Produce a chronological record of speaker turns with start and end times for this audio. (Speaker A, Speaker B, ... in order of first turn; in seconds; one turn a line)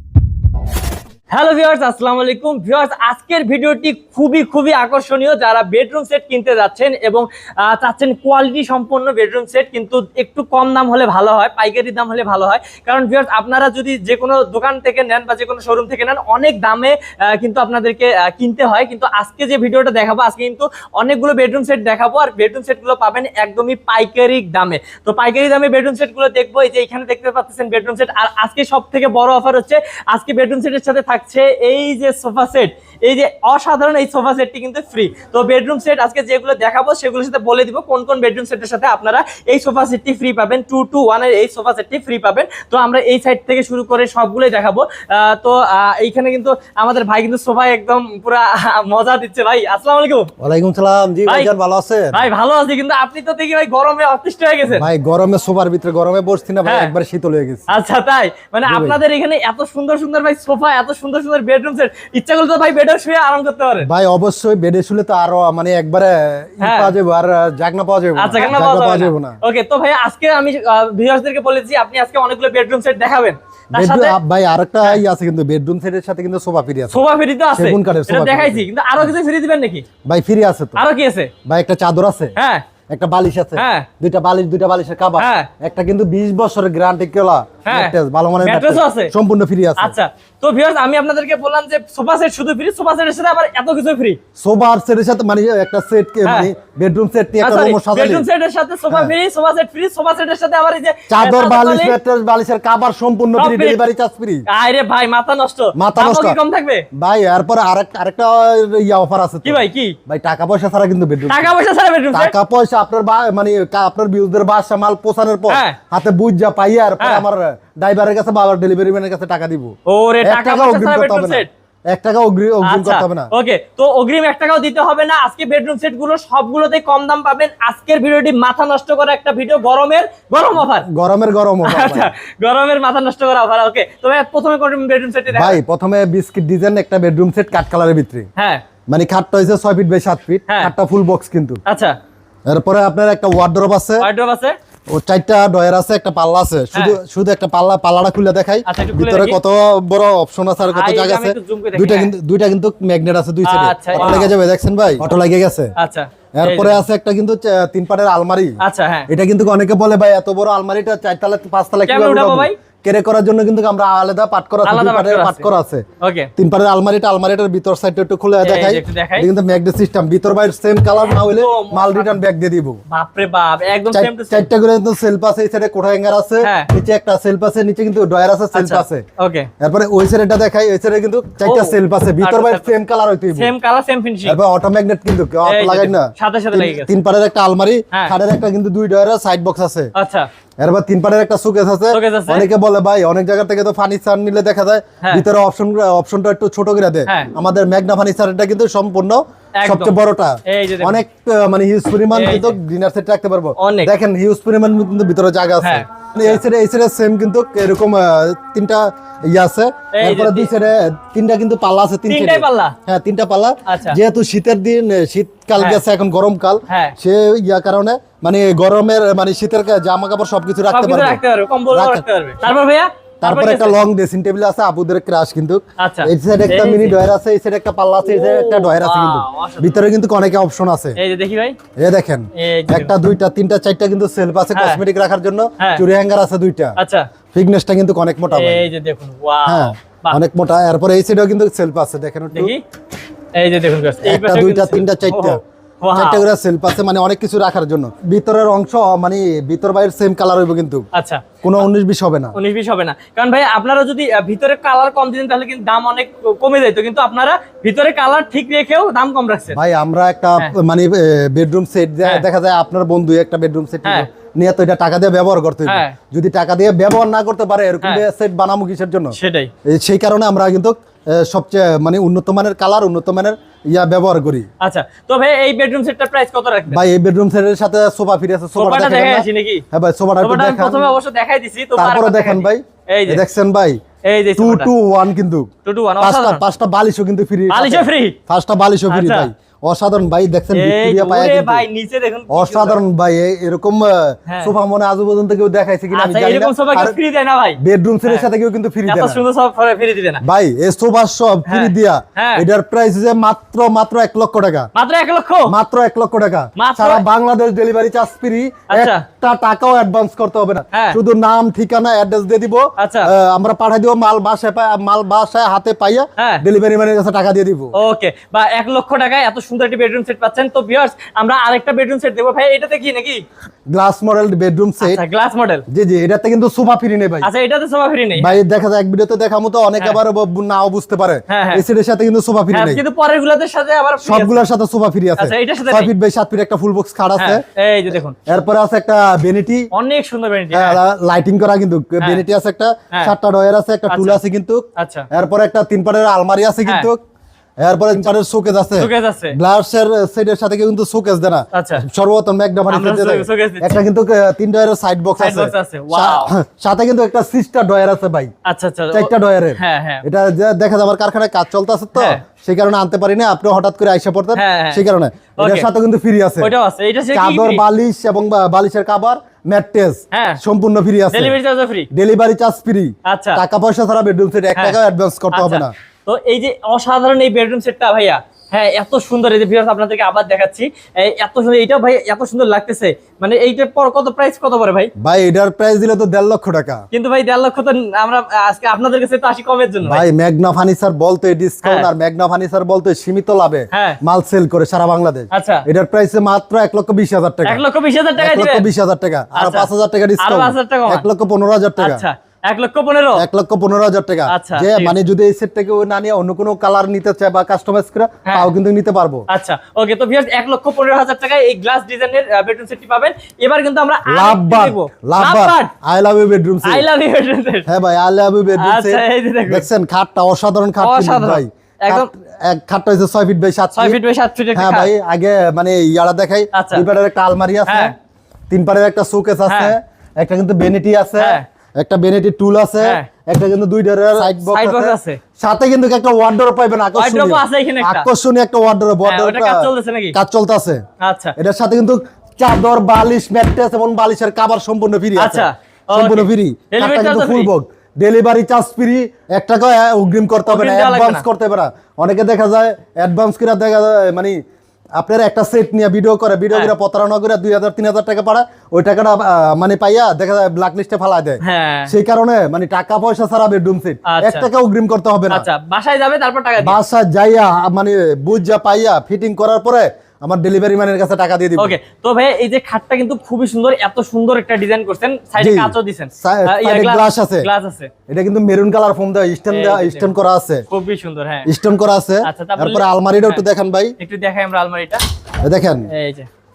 Speaker A: 1.3-50.3
Speaker B: 50.4-52.3
Speaker A: 51.3-51.5
Speaker A: 52.1-54.9
Speaker B: 54.7-57.6
Speaker A: 56.6-56.9
Speaker A: 57.7-63.9
Speaker B: 58.7-59.0
Speaker B: 63.8-69.4
Speaker A: 66.6-66.9
Speaker A: 68.2-74.2
Speaker B: 73.7-77.0
Speaker A: 76.9-79.9
Speaker B: 77.5-79.1
Speaker B: 80.1-80.8
Speaker A: 80.8-81.3
Speaker B: 81.5-82.3
Speaker A: 82.4-82.6
Speaker B: 82.9-90.0
Speaker A: 83.5-83.9
Speaker A: 85.2-85.5
Speaker A: 87.7-89.1
Speaker A: 89.8-94.2
Speaker B: 94.4-98.3
Speaker A: 96.2-96.5
Speaker A: 97.4-102.0
Speaker B: 101.1-104.5
Speaker A: 103.4-103.8
Speaker A: 104.5-106.9
Speaker B: 105.8-106.4
Speaker B: 106.9-111.5
Speaker A: 109.4-110.0
Speaker A: 111.3-112.3
Speaker B: 112.1-123.3
Speaker A: 115.5-115.8
Speaker A: 117.0-117.2
Speaker A: 119.9-121.5
Speaker A: 122.7-130.9
Speaker B: 130.6-132.1
Speaker A: 131.6-135.6
Speaker B: 135.3-138.3
Speaker A: 138.4-138.6
Speaker B: 138.9-141.6
Speaker A: 141.7-141.9
Speaker B: 142.5-144.1
Speaker A: 144.0-144.6
Speaker B: 144.9-155.7
Speaker A: 148.7-149.4
Speaker A: 150.7-152.1
Speaker A: 153.4-154.3
Speaker A: 155.8-156.8
Speaker B: 156.3-165.8
Speaker A: 158.6-159.1
Speaker A: 161.9-162.6
Speaker A: 164.6-166.3
Speaker B: 166.4-172.8
Speaker A: 168.4-169.3
Speaker A: 171.1-172.2
Speaker A: 172.9-174.5
Speaker B: 173.9-179.0
Speaker A: 176.4-176.7
Speaker A: 178.5-179.5
Speaker B: 179.6-183.5
Speaker A: 181.4-182.7
Speaker A: 183.3-184.4
Speaker B: 184.2-189.9
Speaker A: 185.5-186.9
Speaker A: 189.9-190.3
Speaker B: 190.6-221.2
Speaker A: 191.9-192.5
Speaker A: 199.6-201.0
Speaker A: 202.1-202.6
Speaker A: 203.6-203.9
Speaker A: 205.6-206.4
Speaker A: 209.9-210.5
Speaker A: 212.1-212.8
Speaker A: 213.7-214.0
Speaker A: 215.6-215.8
Speaker A: 216.7-216.9
Speaker A: 220.7-223.8
Speaker B: 221.7-222.0
Speaker B: 223.2-231.0
Speaker A: 225.8-227.0
Speaker A: 228.0-229.8
Speaker A: 231.0-231.6
Speaker B: 231.8-236.8
Speaker A: 232.3-232.9
Speaker A: 234.5-234.8
Speaker A: 235.6-235.8
Speaker A: 236.8-237.1
Speaker B: 237.3-238.7
Speaker A: 238.3-240.2
Speaker B: 239.5-242.5
Speaker A: 242.3-242.6
Speaker A: 243.4-246.2
Speaker B: 244.0-245.4
Speaker B: 245.9-250.8
Speaker A: 250.9-251.2
Speaker B: 251.4-252.3
Speaker A: 252.3-259.6
Speaker B: 259.5-274.5
Speaker A: 265.6-266.0
Speaker A: 269.1-269.5
Speaker A: 274.6-276.8
Speaker B: 276.7-280.9
Speaker A: 278.6-279.6
Speaker A: 280.2-283.2
Speaker B: 281.8-283.8
Speaker A: 284.1-284.7
Speaker B: 284.4-285.5
Speaker A: 285.6-286.4
Speaker B: 286.0-291.6
Speaker A: 287.5-288.2
Speaker A: 288.9-289.3
Speaker A: 290.5-292.8
Speaker B: 292.3-297.0
Speaker A: 294.3-294.5
Speaker A: 295.9-298.3
Speaker B: 297.6-299.2
Speaker A: 298.9-300.2
Speaker B: 300.2-304.7
Speaker A: 301.5-302.4
Speaker A: 304.8-305.5
Speaker B: 305.5-317.7
Speaker A: 306.6-307.0
Speaker A: 308.7-309.1
Speaker A: 310.7-311.0
Speaker A: 312.8-313.1
Speaker A: 316.2-316.4
Speaker A: 317.7-323.2
Speaker B: 323.7-325.0
Speaker A: 324.8-325.6
Speaker B: 325.7-327.3
Speaker A: 327.2-328.4
Speaker B: 328.2-332.8
Speaker A: 331.3-331.6
Speaker A: 332.5-334.4
Speaker B: 334.0-337.4
Speaker A: 335.2-335.9
Speaker A: 337.2-338.2
Speaker B: 338.3-339.7
Speaker A: 339.7-340.8
Speaker B: 340.5-347.0
Speaker A: 343.9-344.2
Speaker A: 344.8-345.1
Speaker A: 346.6-346.9
Speaker B: 347.6-358.3
Speaker A: 348.8-349.4
Speaker A: 351.5-351.9
Speaker A: 352.7-353.8
Speaker A: 355.2-356.3
Speaker A: 358.4-360.0
Speaker B: 358.9-366.5
Speaker A: 361.9-362.2
Speaker A: 364.4-364.8
Speaker A: 365.4-365.7
Speaker A: 366.4-367.6
Speaker B: 367.1-371.4
Speaker A: 370.1-370.4
Speaker A: 371.1-371.9
Speaker B: 371.9-375.7
Speaker A: 373.1-373.4
Speaker A: 375.3-384.9
Speaker B: 385.0-386.8
Speaker A: 386.9-390.0
Speaker B: 389.9-397.6
Speaker A: 391.6-391.9
Speaker A: 393.7-394.0
Speaker A: 395.3-395.6
Speaker A: 397.4-398.7
Speaker B: 398.2-402.0
Speaker A: 399.3-401.1
Speaker A: 401.8-403.2
Speaker B: 403.2-409.2
Speaker A: 404.3-404.9
Speaker A: 409.3-415.7
Speaker B: 414.1-416.9
Speaker A: 416.6-417.7
Speaker B: 417.7-424.0
Speaker A: 418.6-419.7
Speaker A: 420.8-422.1
Speaker A: 423.8-424.9
Speaker B: 424.6-427.9
Speaker A: 426.5-426.9
Speaker A: 427.7-427.9
Speaker B: 428.5-440.8
Speaker A: 429.5-429.7
Speaker A: 431.2-431.4
Speaker A: 432.8-433.1
Speaker A: 434.2-435.2
Speaker A: 437.0-438.1
Speaker A: 439.1-440.2
Speaker A: 441.0-441.4
Speaker B: 441.4-454.4
Speaker A: 445.2-447.5
Speaker A: 450.5-451.2
Speaker B: 455.0-465.4
Speaker A: 461.4-461.9
Speaker A: 464.1-464.5
Speaker A: 465.3-466.8
Speaker B: 466.6-471.8
Speaker A: 471.6-477.9
Speaker B: 475.4-477.5
Speaker B: 478.1-480.6
Speaker A: 479.5-480.2
Speaker A: 480.7-481.5
Speaker B: 481.5-483.9
Speaker A: 482.2-483.4
Speaker A: 484.0-485.0
Speaker B: 485.4-485.9
Speaker A: 485.9-486.3